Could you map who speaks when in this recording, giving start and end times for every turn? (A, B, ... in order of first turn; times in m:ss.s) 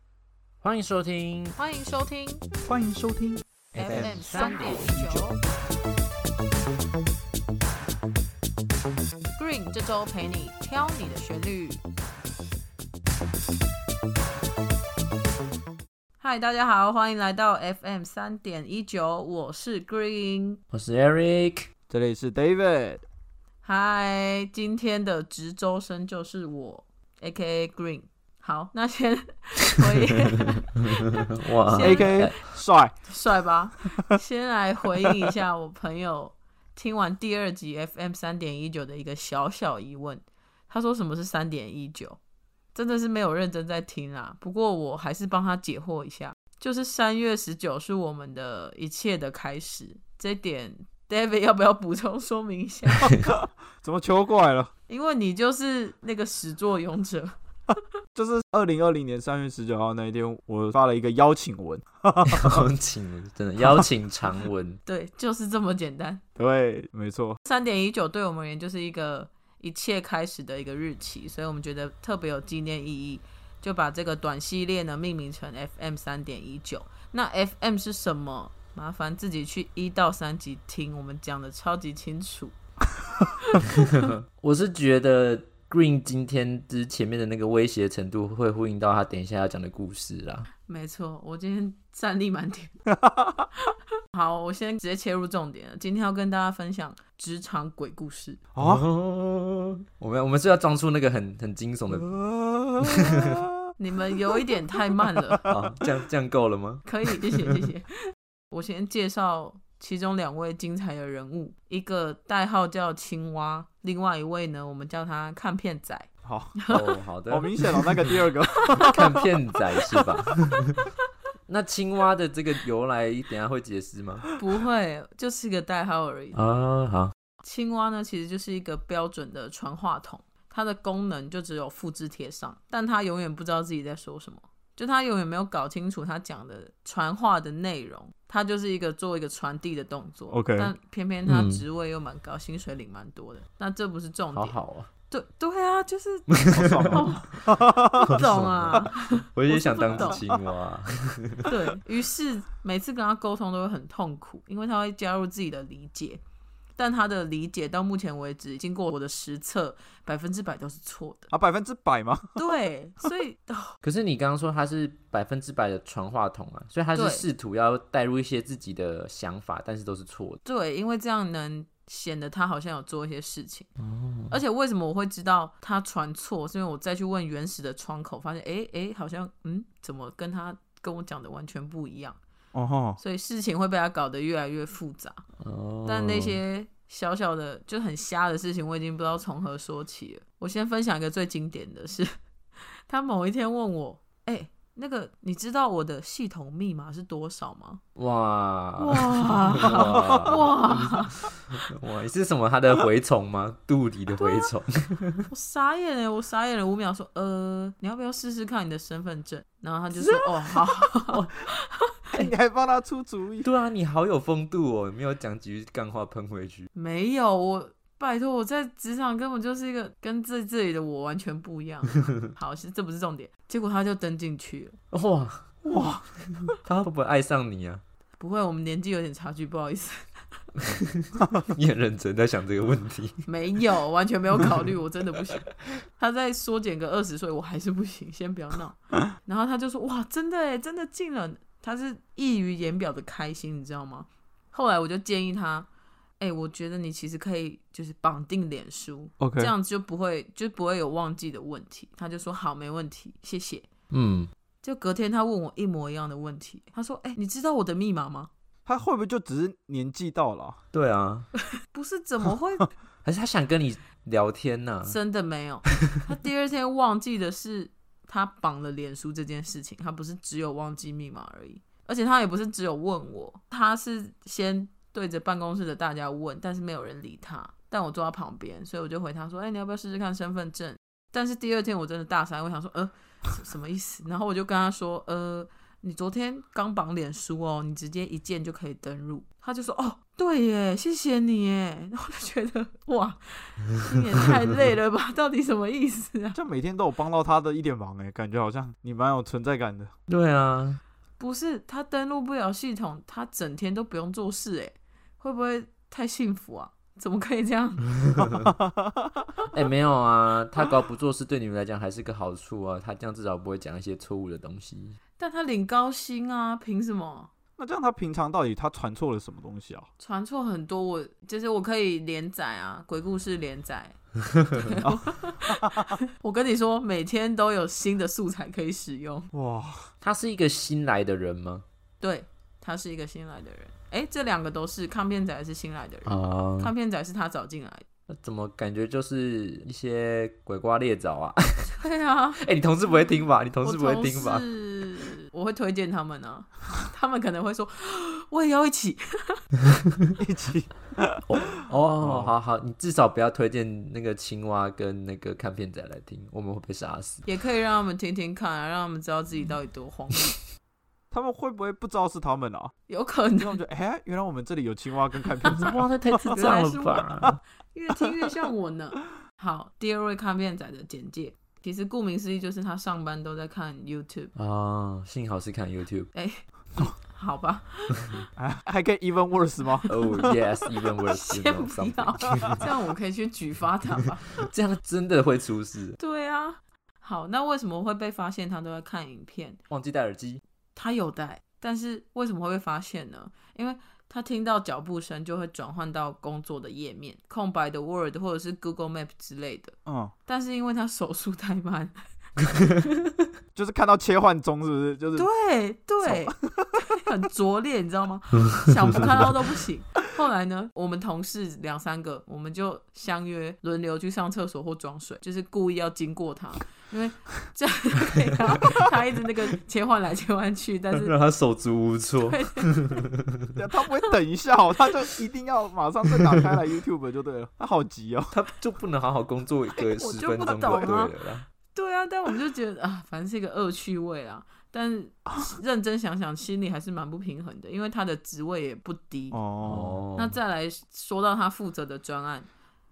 0:00.6-0:01.6 A
0:01.6-0:02.4 B
0:02.6-0:04.6 C
0:03.7-0:05.3 A
0:03.8-0:05.4 B
0:09.4-0:11.8 B
0:16.2-0:20.6 B
0:20.7-0:21.7 A
0:21.9-0:23.0 C
0:23.6-0:32.4 B
0:31.4-0:32.3 A
0:31.8-0:33.0 C
0:33.0-0:42.2 B
0:42.7-0:53.3 B
0:53.2-0:54.7 C
0:54.9-0:57.3 B
0:58.1-1:02.6 C
1:02.3-1:04.8 A
1:04.9-1:06.2 B
1:06.4-1:07.4 C
1:07.4-1:22.6 B
1:23.4-1:23.9 B
1:23.8-1:30.5 A
1:30.7-1:32.8 B
1:32.9-1:33.3 C
1:34.1-1:38.4 B
1:38.6-1:38.9 C
1:38.6-1:42.1 A
1:41.9-1:43.5 C
1:42.8-1:43.4 A
1:43.8-1:45.4 B
1:45.4-1:45.6 C
1:45.5-1:47.6 A
1:46.8-1:57.0 B
1:56.2-1:56.6 C
1:56.7-1:58.1 A
1:57.3-1:59.3 C
1:58.8-2:00.9 A
2:01.5-2:04.3 A
2:04.4-2:06.4 B
2:06.3-2:07.1 A
2:07.4-2:24.6 B
2:20.3-2:20.7 C
2:21.2-2:21.6 A
2:24.3-2:24.9 A
2:25.1-2:26.3 B
2:26.4-2:27.0 A
2:26.5-2:28.2 C
2:26.9-2:30.2 B
2:28.1-2:31.5 A
2:30.0-2:30.2 C
2:31.4-2:36.2 B
2:36.8-2:41.3 B
2:41.3-2:42.5 C
2:42.4-2:43.8 B
2:43.8-2:50.4 A
2:46.9-2:47.2 B
2:50.4-2:53.7 B
2:53.8-2:54.4 A
2:54.3-3:02.2 B
3:02.5-3:03.0 C
3:03.0-3:05.2 B
3:05.4-3:06.4 A
3:05.8-3:12.1 B
3:12.9-3:17.8 B
3:18.0-3:25.2 A
3:18.8-3:21.2 B
3:19.6-3:20.5 C
3:24.2-3:24.5 B
3:25.3-3:31.8 B
3:30.1-3:31.3 A
3:32.1-3:33.5 C
3:33.4-3:36.7 A
3:36.7-3:44.8 B
3:44.9-3:45.5 A
3:45.6-3:46.5 C
3:46.6-3:47.8 A
3:48.2-3:50.0 B
3:50.7-3:53.2 A
3:53.2-4:05.7 B
4:06.2-4:13.7 B
4:09.2-4:09.5 C
4:13.9-4:14.3 A
4:14.6-4:18.3 B
4:18.6-4:20.6 C
4:20.7-4:21.3 A
4:21.6-4:22.7 B
4:23.0-4:25.0 A
4:24.8-4:56.4 B
4:56.3-4:59.9 C
5:00.1-5:00.8 A
5:01.2-5:07.9 B
5:08.2-5:09.1 C
5:09.5-5:15.0 A
5:15.2-5:17.3 B
5:17.6-5:19.9 C
5:20.0-5:24.0 B
5:24.5-5:29.3 B
5:24.8-5:25.9 C
5:29.3-5:29.9 C
5:30.0-5:31.6 A
5:32.0-5:37.8 B
5:36.0-5:36.7 A
5:38.1-5:41.7 A
5:41.8-5:42.4 B
5:42.4-5:44.4 A
5:43.6-5:49.4 B
5:50.2-5:51.2 C
5:51.3-5:57.2 A
5:52.0-5:52.3 C
5:57.2-6:00.3 B
6:01.1-6:02.7 C
6:02.9-6:03.6 B
6:03.4-6:06.4 C
6:05.5-6:07.4 A
6:06.3-6:14.3 B
6:14.3-6:16.1 A
6:16.1-6:18.2 B
6:18.4-6:20.4 C
6:19.9-6:24.5 B
6:19.9-6:22.6 A
6:24.4-6:26.0 A
6:26.0-6:29.6 B
6:29.7-6:30.4 A
6:30.8-6:39.8 B
6:39.8-6:40.1 C
6:40.2-6:42.0 B
6:42.5-6:43.2 B
6:43.5-6:45.3 C
6:45.2-7:01.1 B
6:46.0-6:46.7 C
7:00.9-7:03.2 A
7:02.3-7:03.0 B
7:03.6-7:08.3 C
7:08.3-7:11.4 A
7:09.8-7:11.1 B
7:10.5-7:10.9 C
7:11.7-7:19.4 B
7:19.3-7:20.0 C
7:19.6-7:20.4 A
7:20.1-7:22.5 B